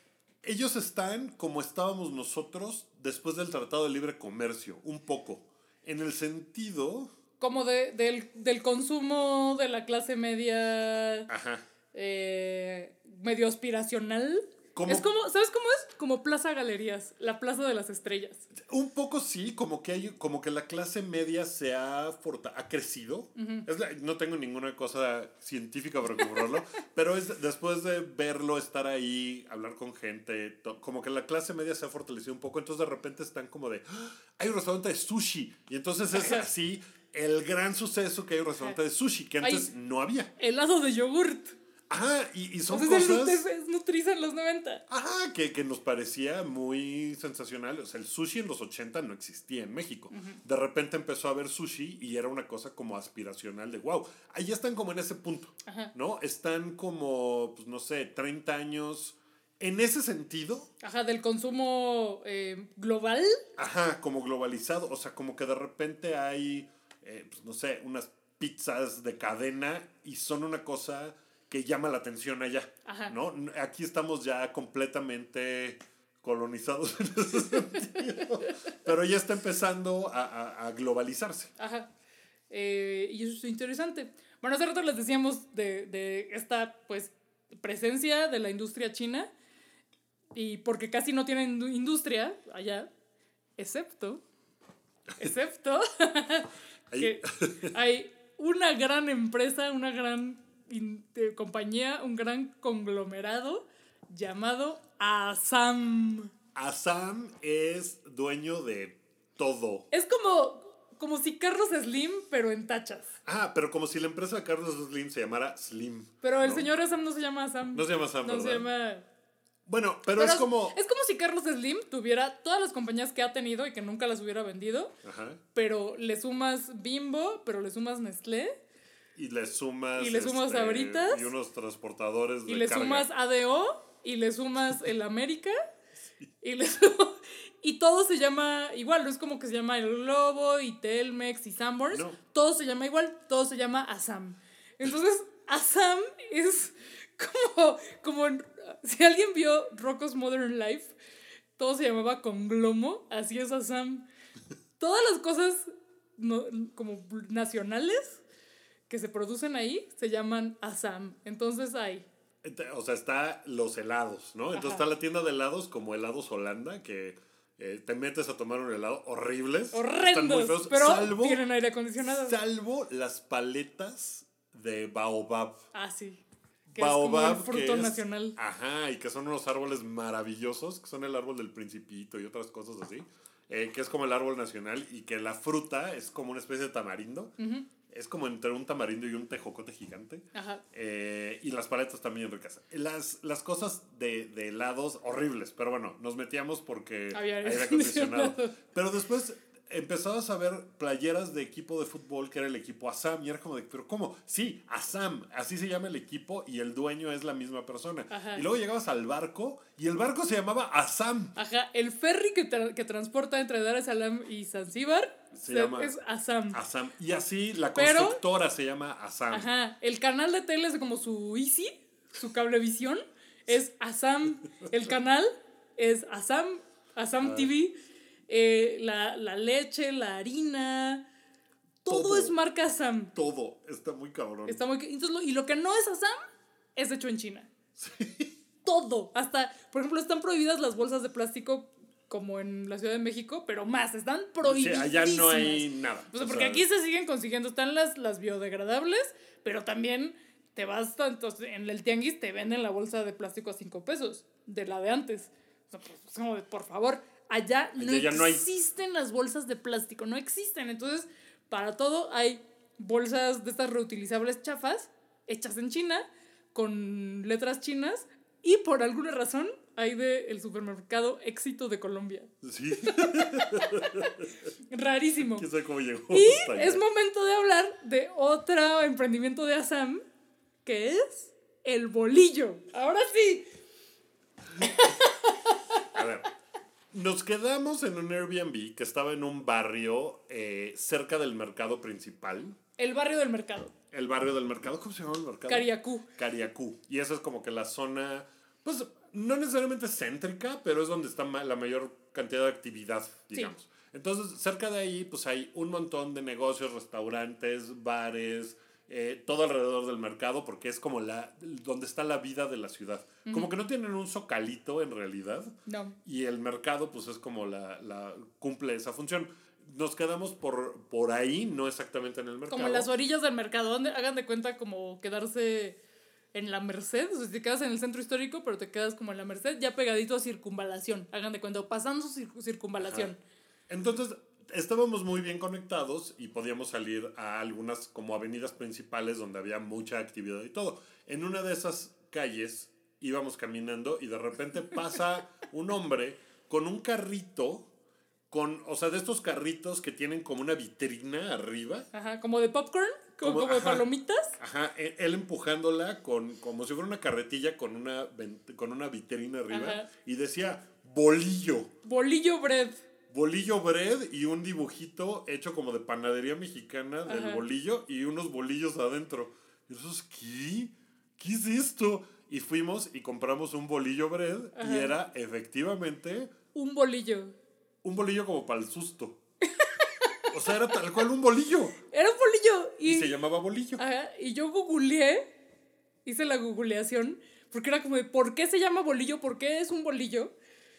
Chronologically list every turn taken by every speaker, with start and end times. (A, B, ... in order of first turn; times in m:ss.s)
0:00.4-0:07.1 A
0:07.4-0:11.3 B
0:11.3-0:11.6 A
0:11.9-0:18.5 B
0:14.8-0:15.1 A
0:18.5-0:40.3 A
0:23.4-0:23.7 B
0:36.1-0:36.5 B
0:39.4-0:39.7 B
0:40.4-0:41.6 B
0:41.9-0:43.4 A
0:42.7-0:44.8 B
0:44.9-1:00.7 A
0:50.1-0:50.4 B
0:55.7-0:55.9 B
1:00.8-1:03.4 B
1:03.6-1:21.5 A
1:12.9-1:13.1 B
1:21.6-1:21.9 B
1:22.5-1:29.3 B
1:30.4-1:32.9 B
1:33.6-1:34.2 B
1:35.2-1:46.3 B
1:36.9-1:37.7 A
1:46.6-1:49.9 A
1:49.9-1:53.2 B
1:53.2-1:56.7 A
1:56.2-1:59.1 B
1:57.7-1:58.7 A
1:59.7-2:00.8 A
2:00.2-2:05.0 B
2:05.0-2:05.4 A
2:05.5-2:08.6 B
2:09.2-2:13.1 A
2:10.0-2:11.3 B
2:12.5-2:15.6 B
2:16.4-2:30.9 B
2:21.9-2:22.2 A
2:31.6-2:34.1 B
2:34.8-2:38.2 B
2:38.9-2:42.1 B
2:42.4-2:51.4 A
2:44.5-2:44.8 B
2:49.7-2:52.3 B
2:52.0-2:55.6 A
2:55.7-2:56.2 B
2:56.7-3:07.3 A
2:56.7-2:58.4 B
3:07.4-3:07.7 B
3:07.9-3:31.3 A
3:10.3-3:10.6 B
3:17.1-3:18.6 B
3:28.1-3:28.4 B
3:31.4-3:36.6 B
3:35.3-3:36.0 A
3:36.5-3:39.5 A
3:37.8-3:38.2 B
3:39.3-3:47.7 B
3:47.2-3:47.5 A
3:48.3-3:51.0 B
3:51.8-3:53.1 B
3:51.9-3:52.4 A
3:53.1-3:54.6 A
3:54.5-3:57.5 B
3:57.8-3:58.4 A
3:58.6-4:33.9 B
4:04.4-4:06.6 A
4:17.8-4:18.5 A
4:32.4-4:34.3 A
4:34.7-4:35.5 B
4:35.3-4:36.8 A
4:36.1-4:40.0 B
4:40.6-4:43.5 B
4:44.6-4:45.8 B
4:45.9-4:46.3 A
4:46.9-4:52.6 A
4:52.8-4:53.7 B
4:53.9-5:22.9 A
4:55.5-4:56.1 B
5:13.3-5:13.5 B
5:15.7-5:16.0 B
5:22.5-5:25.8 B
5:26.3-5:33.2 B
5:32.8-5:33.2 A
5:33.7-5:47.7 A
5:48.3-5:51.9 A
5:51.9-5:54.4 B
5:53.2-5:53.9 A
5:54.4-6:01.7 A
5:59.5-5:59.9 B
6:01.8-6:02.8 B
6:03.1-6:16.3 A
6:07.1-6:07.4 B
6:14.6-6:15.0 B
6:16.5-6:17.4 B
6:17.8-6:19.2 A
6:19.4-6:20.1 B
6:20.3-6:21.8 A
6:21.9-6:23.1 B
6:22.8-6:23.8 A
6:23.8-6:25.3 B
6:26.0-6:30.3 B